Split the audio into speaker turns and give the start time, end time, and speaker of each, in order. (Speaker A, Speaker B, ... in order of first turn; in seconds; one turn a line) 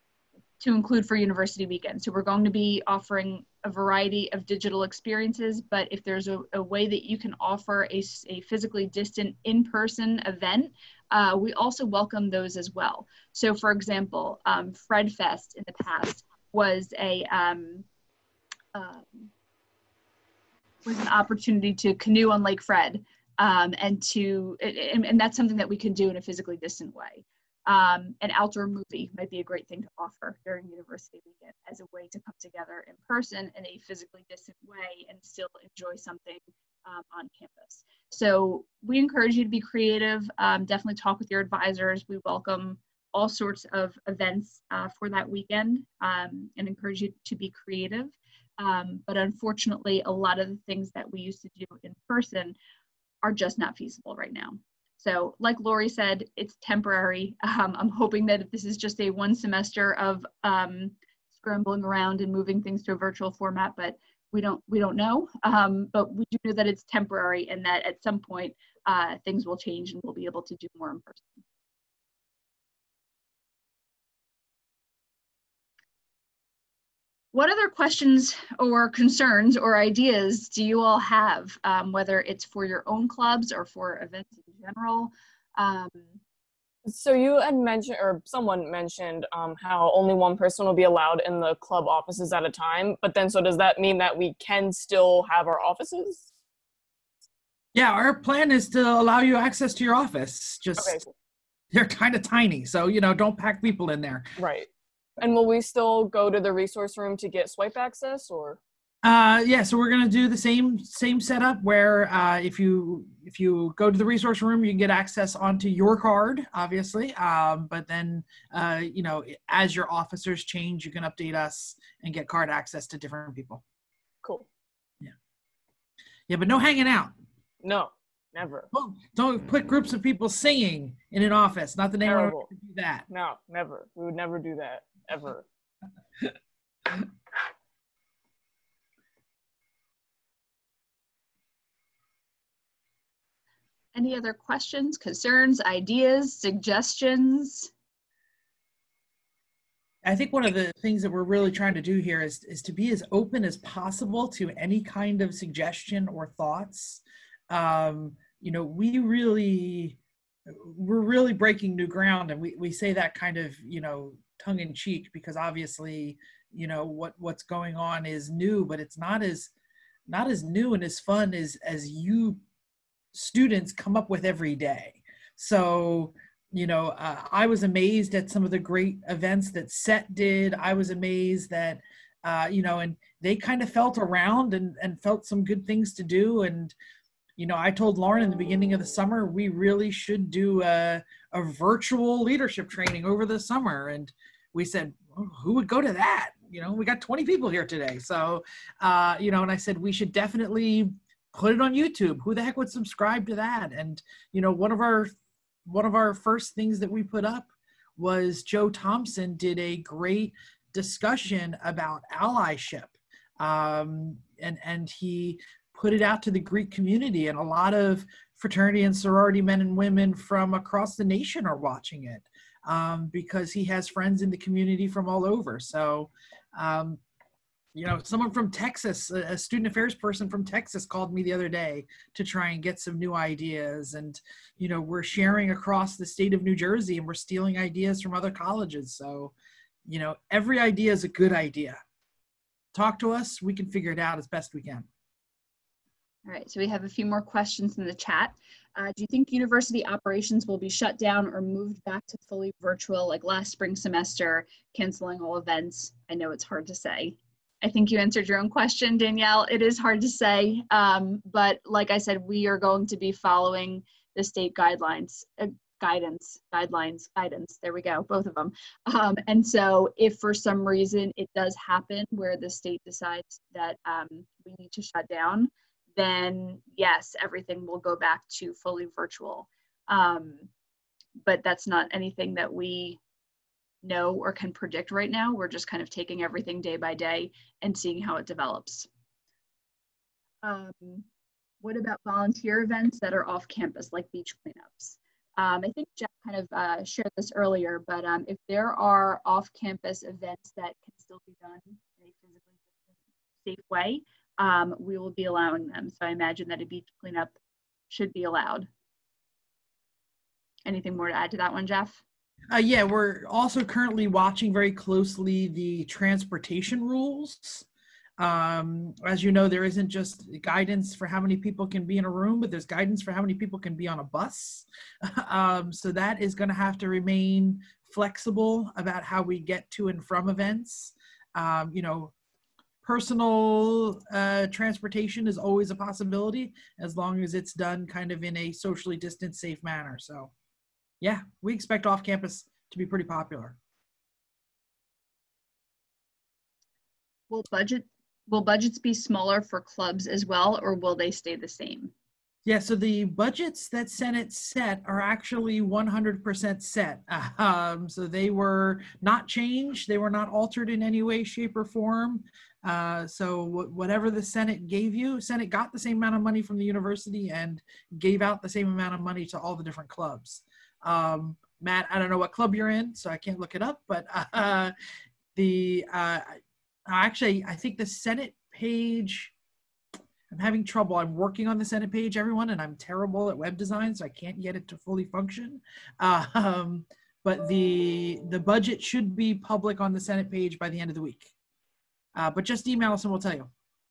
Speaker A: 0.6-17.9
Speaker A: 18.7-19.3
Speaker A: 20.9-52.6
Speaker A: 53.2-71.4
Speaker A: 77.3-86.2
Speaker B: 86.9-96.3
Speaker C: 97.7-101.0
Speaker B: 100.8-101.1
Speaker C: 101.7-104.3
Speaker B: 104.4-108.6
Speaker C: 109.0-123.6
Speaker C: 126.3-127.1
Speaker B: 127.6-128.7
Speaker C: 128.7-133.1
Speaker B: 132.1-132.5
Speaker B: 133.1-135.4
Speaker A: 143.9-147.7
Speaker C: 150.0-169.5
Speaker C: 170.1-172.4
Speaker C: 173.1-186.8
Speaker C: 187.4-205.1
Speaker C: 205.7-227.0
Speaker C: 227.7-239.3
Speaker C: 239.9-241.8
Speaker C: 242.7-244.9
Speaker A: 246.3-280.5
Speaker A: 281.2-283.0
Speaker A: 283.8-288.9
Speaker A: 290.4-291.1
Speaker A: 291.6-302.9
Speaker A: 303.4-307.4
Speaker A: 307.9-308.7
Speaker A: 310.7-312.0
Speaker C: 312.5-317.7
Speaker C: 318.2-332.1
Speaker C: 332.8-340.3
Speaker C: 341.0-343.6
Speaker A: 347.3-351.9
Speaker C: 352.5-374.7
Speaker C: 375.4-379.3
Speaker C: 380.3-391.3
Speaker C: 392.1-393.5